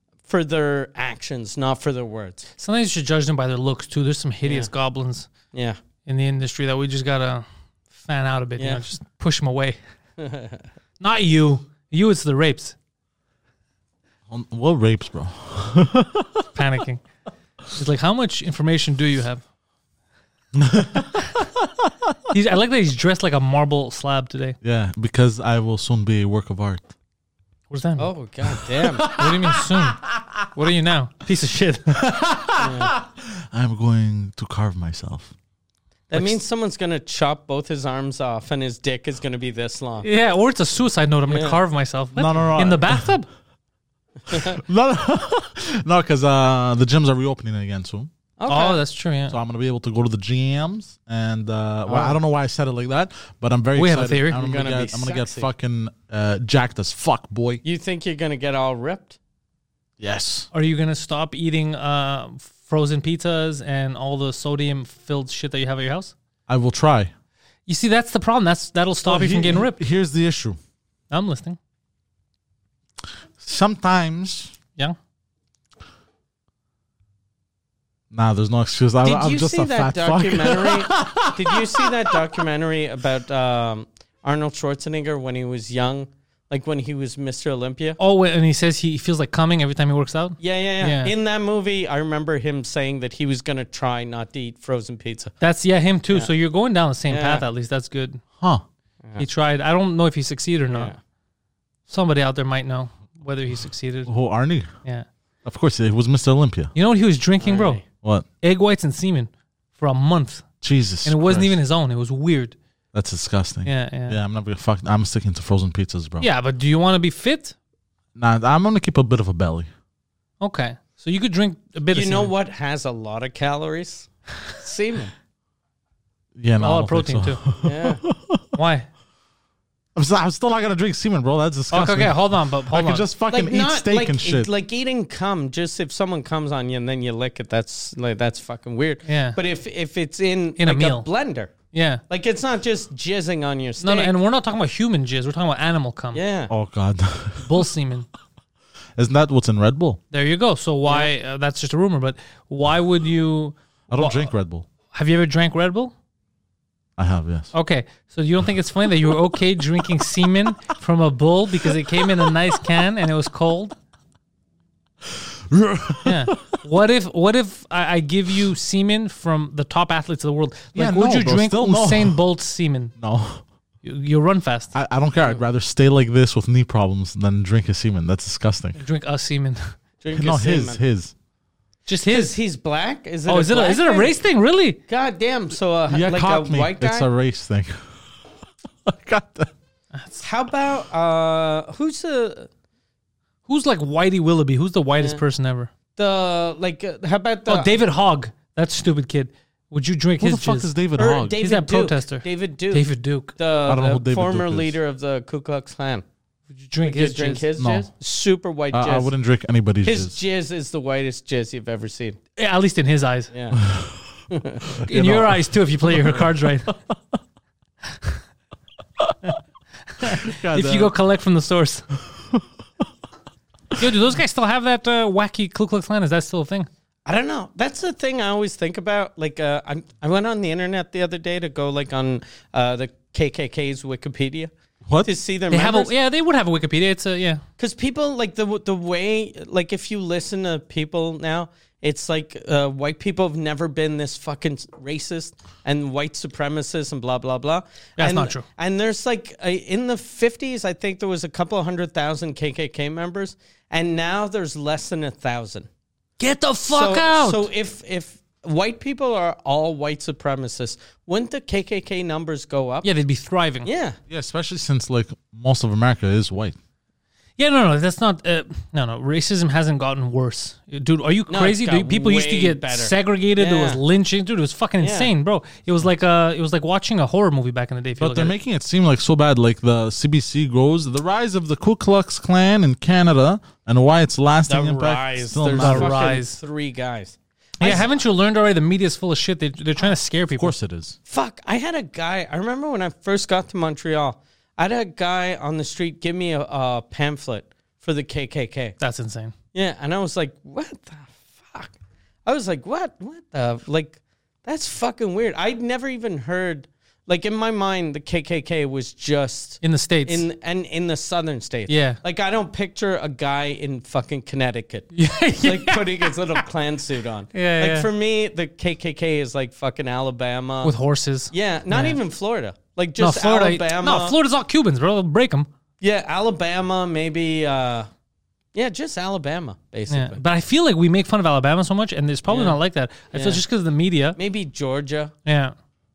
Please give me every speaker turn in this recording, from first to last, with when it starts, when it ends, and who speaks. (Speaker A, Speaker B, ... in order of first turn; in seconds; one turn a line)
Speaker A: 0.3-2.5
Speaker B: 2.6-5.3
Speaker A: 4.4-4.7
Speaker A: 5.5-5.8
Speaker B: 6.1-7.5
Speaker B: 8.0-9.8
Speaker A: 8.6-8.8
Speaker A: 10.2-10.6
Speaker B: 11.0-12.8
Speaker C: 14.3-16.5
Speaker B: 16.6-17.0
Speaker B: 17.7-19.4
Speaker C: 20.6-22.2
Speaker B: 22.3-24.6
Speaker C: 24.6-26.9
Speaker B: 27.7-28.1
Speaker A: 28.0-29.1
Speaker C: 28.5-30.2
Speaker B: 29.0-32.0
Speaker C: 32.0-35.3
Speaker A: 32.6-32.9
Speaker A: 36.1-40.1
Speaker B: 40.0-43.3
Speaker A: 41.3-41.6
Speaker C: 42.2-43.1
Speaker A: 44.3-44.6
Speaker C: 44.3-48.1
Speaker A: 48.4-48.8
Speaker B: 48.5-49.4
Speaker C: 49.3-57.6
Speaker A: 51.9-52.2
Speaker B: 53.8-54.4
Speaker A: 54.4-55.5
Speaker A: 57.6-59.2
Speaker C: 60.0-60.5
Speaker B: 60.5-66.1
Speaker C: 66.5-67.1
Speaker B: 67.7-69.8
Speaker C: 69.0-70.6
Speaker B: 71.1-71.6
Speaker C: 73.4-74.5
Speaker C: 78.1-82.1
Speaker A: 79.0-88.0
Speaker B: 88.0-91.1
Speaker A: 90.4-95.3
Speaker B: 95.4-98.2
Speaker A: 97.1-97.5
Speaker B: 99.2-100.9
Speaker A: 100.7-101.0
Speaker B: 101.9-104.1
Speaker C: 104.1-104.7
Speaker C: 105.5-106.7
Speaker B: 106.8-107.9
Speaker A: 107.4-107.8
Speaker B: 108.4-110.5
Speaker C: 110.6-111.5
Speaker B: 111.0-112.6
Speaker C: 112.9-116.3
Speaker B: 113.7-114.2
Speaker B: 116.2-117.5
Speaker C: 118.2-119.7
Speaker B: 120.4-122.3
Speaker A: 121.9-125.1
Speaker C: 126.4-128.5
Speaker B: 126.6-127.4
Speaker A: 127.6-128.0
Speaker B: 128.6-128.9
Speaker C: 130.0-134.5
Speaker B: 131.7-133.1
Speaker A: 133.3-141.5
Speaker B: 139.1-139.4
Speaker B: 140.6-141.1
Speaker B: 141.7-142.0
Speaker A: 142.1-144.1
Speaker B: 143.8-146.2
Speaker A: 146.1-146.5
Speaker C: 146.5-147.7
Speaker B: 147.4-148.1
Speaker C: 149.0-150.0
Speaker B: 150.1-154.3
Speaker A: 150.9-151.1
Speaker C: 153.9-154.7
Speaker B: 154.9-155.9
Speaker C: 157.0-157.5
Speaker B: 157.5-163.8
Speaker C: 161.7-162.3
Speaker C: 165.1-166.6
Speaker B: 166.1-172.9
Speaker C: 170.8-172.2
Speaker C: 173.0-173.4
Speaker B: 173.8-174.8
Speaker C: 174.7-178.8
Speaker B: 178.8-179.7
Speaker A: 180.0-180.8
Speaker C: 180.2-181.1
Speaker B: 181.9-182.4
Speaker A: 182.1-184.2
Speaker B: 183.3-184.8
Speaker A: 184.9-187.1
Speaker C: 185.9-188.0
Speaker C: 188.8-189.5
Speaker B: 189.9-190.2
Speaker A: 190.2-192.5
Speaker B: 193.5-195.7
Speaker A: 195.0-195.2
Speaker A: 196.0-197.8
Speaker B: 197.5-200.7
Speaker C: 200.2-201.4
Speaker A: 201.0-206.0
Speaker B: 201.4-203.3
Speaker C: 203.7-204.8
Speaker B: 206.5-207.4
Speaker A: 206.8-209.1
Speaker C: 207.6-207.9
Speaker C: 208.7-210.2
Speaker A: 209.8-212.2
Speaker B: 212.4-213.3
Speaker A: 213.3-213.6
Speaker C: 213.5-214.1
Speaker A: 214.3-214.7
Speaker C: 214.7-216.3
Speaker B: 214.9-216.7
Speaker B: 219.9-221.8
Speaker C: 220.0-220.9
Speaker C: 222.1-222.5
Speaker B: 223.8-226.7
Speaker A: 227.1-234.5
Speaker A: 235.0-235.9
Speaker B: 235.5-237.4
Speaker A: 237.6-255.7
Speaker B: 248.0-248.4
Speaker B: 256.2-257.5
Speaker A: 256.7-262.9
Speaker B: 262.8-263.7
Speaker A: 263.6-264.0
Speaker C: 264.1-266.6
Speaker B: 267.4-278.3
Speaker A: 271.3-273.8
Speaker A: 274.8-275.1
Speaker C: 278.0-286.0
Speaker A: 284.5-288.0
Speaker B: 285.5-286.4
Speaker B: 287.6-290.5
Speaker C: 290.4-291.0
Speaker A: 291.1-298.8
Speaker B: 298.8-299.3
Speaker A: 299.5-301.7
Speaker A: 302.3-320.7
Speaker B: 309.6-310.2
Speaker B: 311.7-312.0
Speaker B: 314.9-316.4
Speaker B: 317.3-317.9
Speaker B: 320.6-322.0
Speaker A: 321.3-324.2
Speaker B: 323.0-325.5
Speaker A: 325.8-327.9
Speaker A: 328.5-330.2
Speaker B: 329.9-334.2
Speaker A: 332.3-332.6
Speaker A: 333.1-333.4
Speaker A: 334.2-335.1
Speaker B: 335.3-335.5